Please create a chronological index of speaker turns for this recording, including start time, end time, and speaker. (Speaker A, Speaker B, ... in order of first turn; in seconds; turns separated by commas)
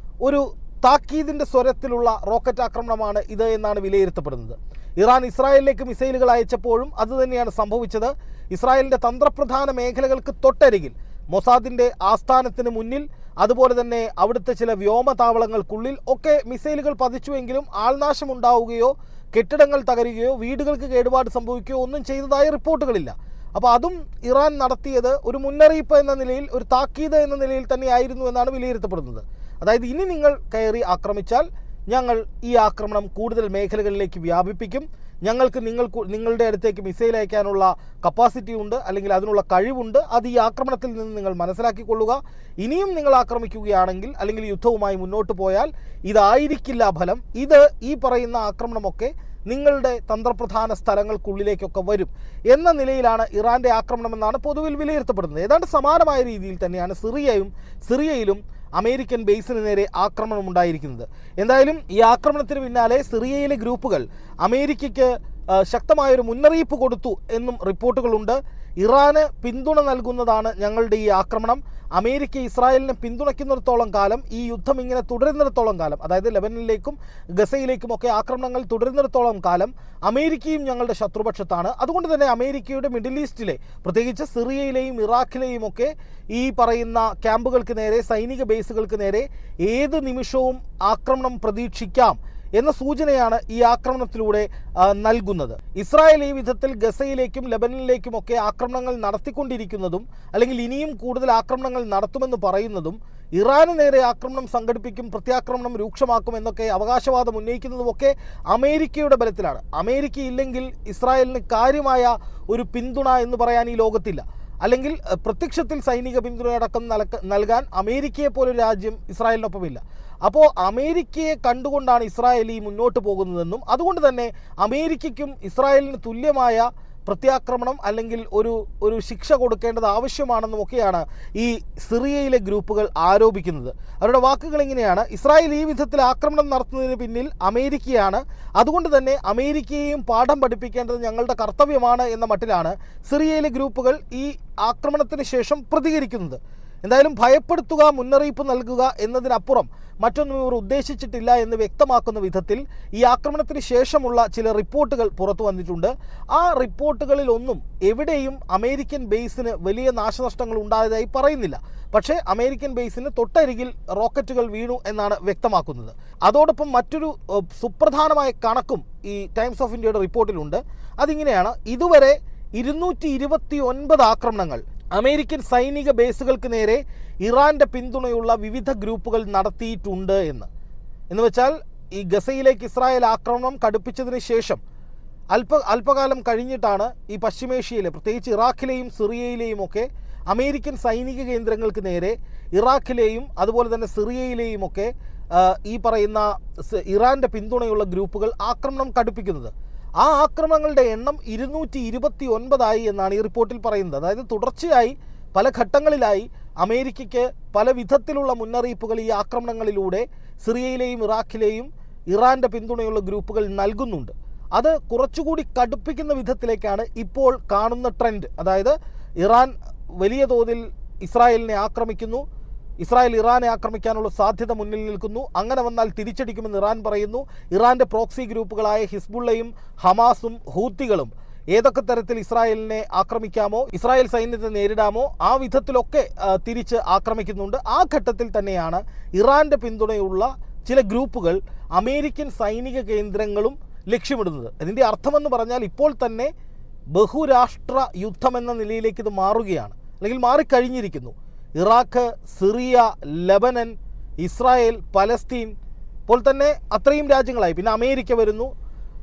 Speaker A: 0.2-180.5, Speaker A: 181.1-184.6, Speaker A: 185.3-222.2, Speaker A: 222.8-246.3, Speaker A: 246.9-255.5, Speaker A: 256.1-258.5